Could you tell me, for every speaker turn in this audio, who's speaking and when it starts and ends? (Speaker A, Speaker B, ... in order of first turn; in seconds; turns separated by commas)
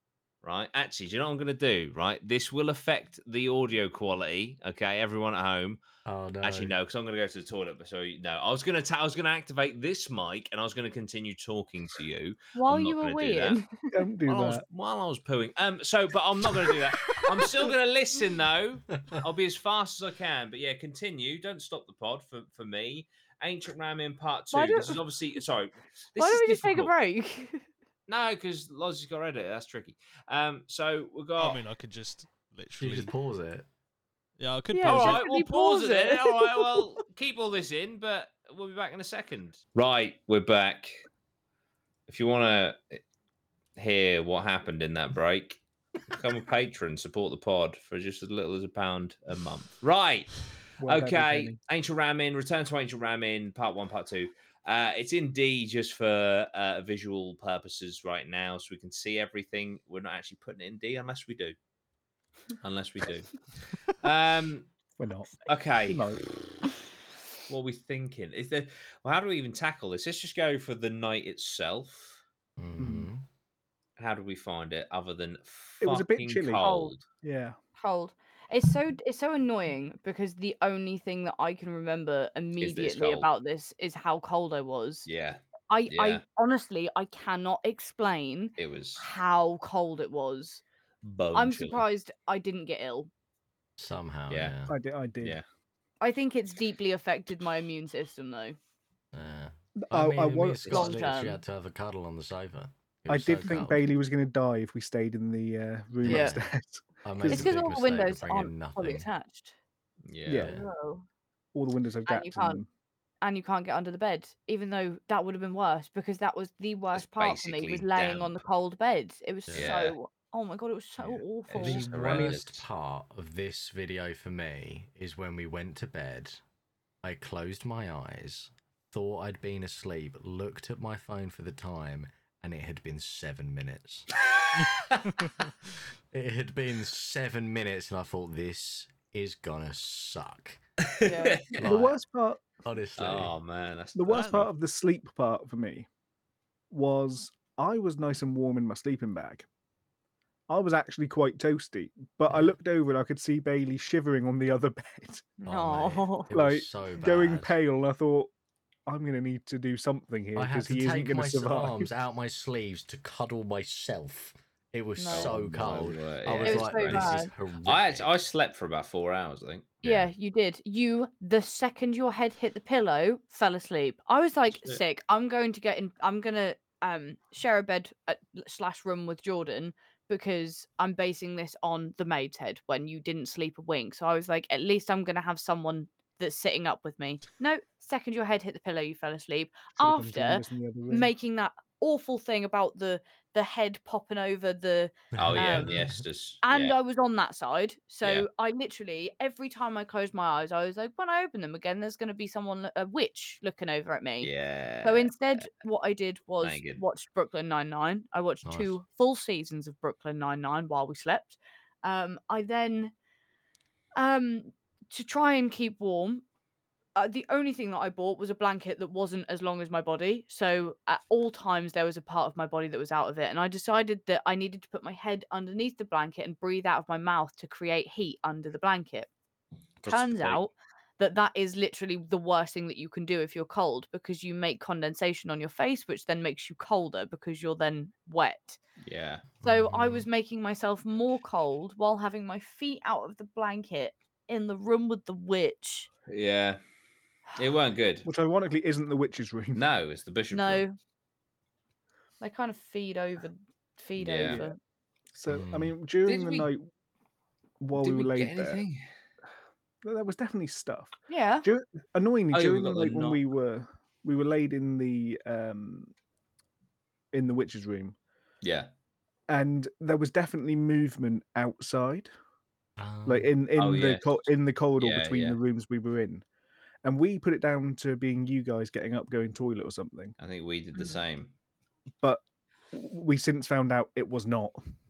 Speaker A: 0.4-5.8, Speaker B: 6.0-6.8, Speaker A: 6.4-13.6, Speaker C: 12.5-14.0, Speaker D: 13.9-14.6, Speaker A: 14.3-26.9, Speaker C: 24.5-25.0, Speaker C: 26.2-27.7, Speaker A: 28.1-31.6, Speaker E: 31.4-33.1, Speaker B: 32.8-33.6, Speaker E: 34.4-35.2, Speaker C: 34.7-36.9, Speaker A: 34.8-41.0, Speaker A: 42.1-43.0, Speaker A: 43.8-61.5, Speaker D: 50.8-51.6, Speaker A: 62.6-64.7, Speaker D: 65.0-66.2, Speaker A: 65.5-66.6, Speaker A: 67.5-72.2, Speaker B: 72.6-73.2, Speaker D: 72.8-73.1, Speaker A: 74.0-77.0, Speaker D: 75.8-76.7, Speaker C: 76.6-76.9, Speaker D: 77.2-77.6, Speaker C: 77.8-85.1, Speaker A: 82.6-83.3, Speaker A: 85.0-86.2, Speaker C: 85.7-90.6, Speaker A: 88.6-89.0, Speaker A: 91.0-91.8, Speaker C: 91.3-93.1, Speaker B: 93.8-94.7, Speaker A: 94.3-94.5, Speaker D: 94.7-95.4, Speaker C: 96.0-98.6, Speaker B: 99.1-103.8, Speaker D: 99.8-101.0, Speaker C: 100.7-101.4, Speaker D: 103.1-107.5, Speaker B: 106.0-106.4, Speaker C: 106.0-106.4, Speaker B: 107.0-109.0, Speaker C: 107.2-109.5, Speaker A: 110.1-110.5, Speaker D: 110.2-110.5, Speaker B: 110.3-110.6, Speaker C: 110.4-111.0, Speaker D: 111.5-112.7, Speaker C: 112.1-112.6, Speaker C: 113.2-122.3, Speaker A: 116.9-118.4, Speaker B: 119.5-119.7, Speaker A: 119.5-119.9, Speaker A: 121.1-122.6, Speaker B: 121.6-126.4, Speaker B: 127.0-134.1, Speaker A: 134.2-135.1, Speaker E: 134.6-135.3, Speaker B: 136.1-140.6, Speaker A: 140.8-141.8, Speaker C: 141.0-141.4, Speaker B: 141.6-142.0, Speaker D: 141.6-142.6, Speaker B: 142.6-143.3, Speaker A: 143.0-144.5, Speaker D: 143.9-145.9, Speaker D: 146.7-149.4, Speaker D: 150.5-155.3, Speaker C: 155.4-156.3, Speaker B: 155.5-157.5, Speaker D: 156.3-158.3, Speaker D: 158.9-161.9, Speaker B: 160.3-168.1, Speaker C: 164.9-165.4, Speaker A: 165.1-169.8, Speaker C: 166.4-167.3, Speaker C: 169.8-195.8, Speaker A: 174.5-174.8, Speaker D: 189.8-191.1, Speaker B: 195.1-196.0, Speaker A: 195.2-196.7, Speaker C: 196.4-204.3, Speaker A: 204.2-205.1, Speaker C: 204.8-212.9, Speaker A: 206.4-206.8, Speaker B: 208.4-208.7, Speaker C: 214.0-216.2, Speaker C: 216.9-229.1, Speaker A: 229.8-230.4, Speaker C: 229.8-238.6, Speaker A: 238.8-239.2, Speaker B: 239.4-240.1, Speaker C: 239.4-245.9, Speaker A: 246.1-246.6, Speaker A: 247.3-248.1, Speaker D: 248.0-249.6, Speaker A: 249.5-250.6, Speaker C: 250.3-250.8, Speaker C: 252.2-254.6, Speaker A: 254.0-254.4, Speaker D: 254.2-254.6, Speaker D: 255.1-256.6, Speaker B: 255.3-255.7, Speaker A: 256.1-256.5, Speaker D: 257.6-258.6, Speaker A: 257.7-258.8, Speaker D: 259.8-265.9, Speaker C: 261.1-261.5, Speaker A: 262.3-263.2, Speaker D: 267.1-267.9, Speaker A: 268.4-268.7, Speaker D: 269.3-272.1, Speaker B: 272.8-273.3, Speaker D: 273.1-276.2, Speaker A: 273.6-274.2, Speaker A: 274.8-275.4, Speaker D: 276.8-280.1, Speaker A: 280.2-281.3, Speaker D: 282.0-284.6